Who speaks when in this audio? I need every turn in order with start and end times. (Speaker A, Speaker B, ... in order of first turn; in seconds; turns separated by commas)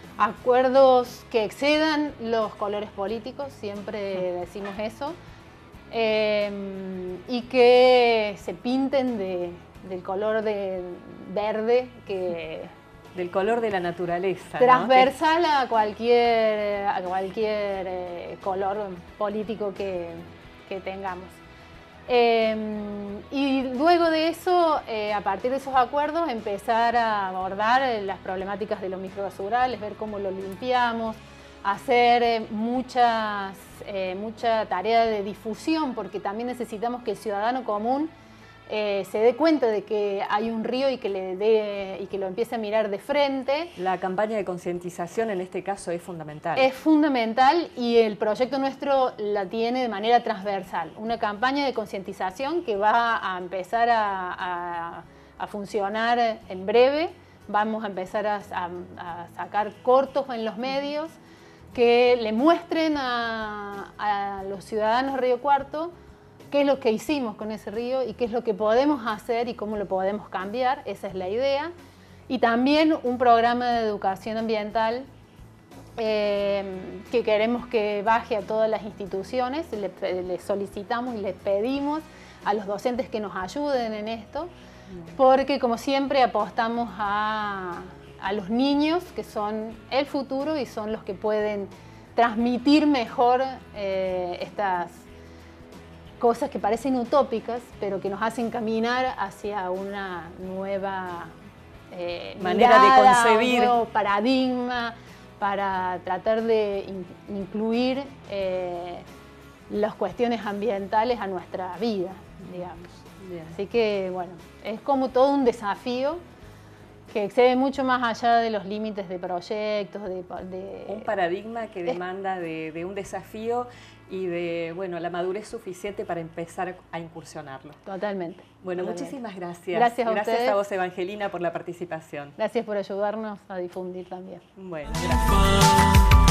Speaker A: 0.2-5.2, Speaker A: 5.9-12.7, Speaker B: 13.1-15.1, Speaker A: 14.6-21.4, Speaker A: 22.1-38.1, Speaker A: 38.7-43.7, Speaker B: 43.8-46.7, Speaker A: 46.5-61.2, Speaker A: 61.7-65.9, Speaker A: 66.5-71.7, Speaker A: 72.3-75.1, Speaker A: 76.0-84.5, Speaker A: 85.1-95.0, Speaker A: 96.2-101.3, Speaker A: 101.9-109.0, Speaker B: 102.4-103.8, Speaker A: 109.7-112.9, Speaker B: 113.2-113.6, Speaker A: 113.5-116.2, Speaker A: 117.1-121.1, Speaker B: 120.9-127.8, Speaker A: 127.8-129.2, Speaker B: 128.6-132.3, Speaker A: 129.7-130.6, Speaker A: 132.4-134.4, Speaker B: 134.6-135.9